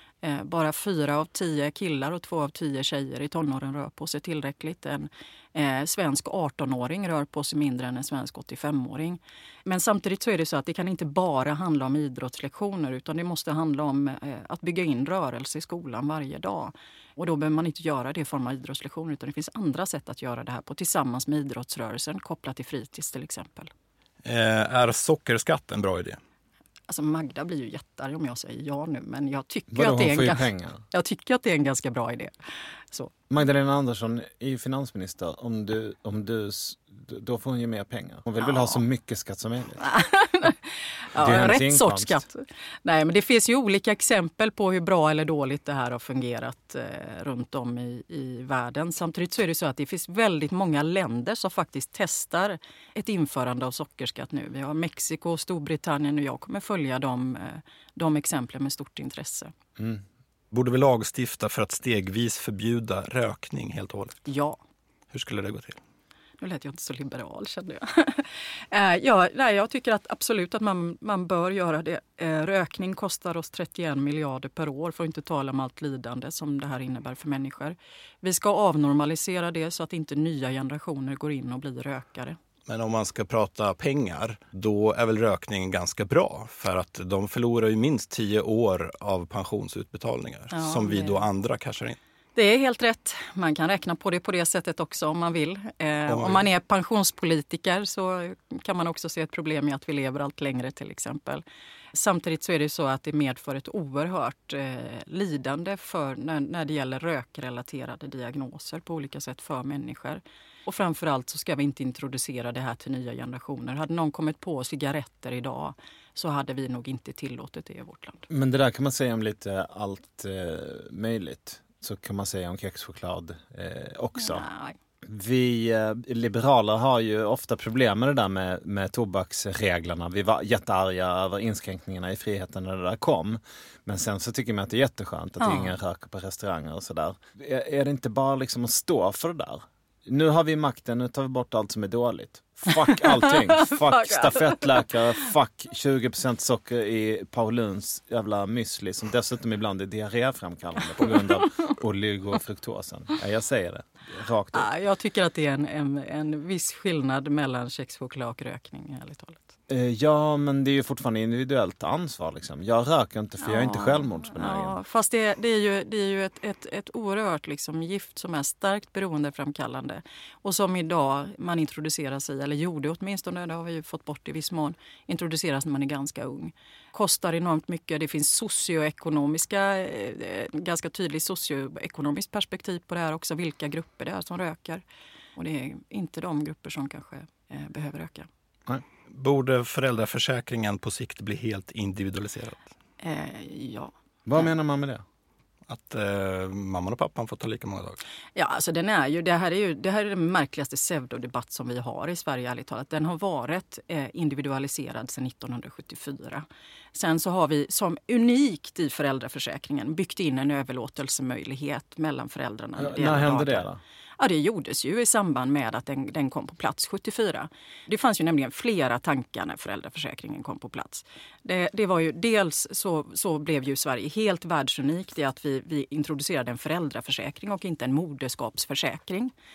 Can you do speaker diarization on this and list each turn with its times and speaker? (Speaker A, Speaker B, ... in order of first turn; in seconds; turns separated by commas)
Speaker A: 0.2-23.7, Speaker B: 24.2-26.2, Speaker A: 26.9-32.3, Speaker C: 29.7-30.8, Speaker C: 33.3-39.8, Speaker A: 38.4-38.8, Speaker A: 39.8-59.5, Speaker C: 41.2-42.2, Speaker C: 59.8-60.0, Speaker B: 60.5-64.2, Speaker A: 64.3-64.6, Speaker B: 65.1-65.8, Speaker A: 66.4-82.4, Speaker B: 82.7-92.0, Speaker A: 90.5-91.2, Speaker A: 92.4-118.3, Speaker B: 96.1-96.4, Speaker C: 118.3-124.5, Speaker A: 124.2-124.8, Speaker C: 125.0-154.7, Speaker A: 135.4-135.7, Speaker A: 142.8-144.8, Speaker A: 151.0-151.7, Speaker A: 154.5-159.5, Speaker C: 159.7-164.8, Speaker A: 163.4-184.8, Speaker A: 185.3-188.3, Speaker B: 189.1-192.6, Speaker A: 193.0-193.9, Speaker C: 194.3-195.0, Speaker B: 195.7-198.0, Speaker A: 198.4-213.7, Speaker C: 212.8-213.8, Speaker A: 214.2-229.3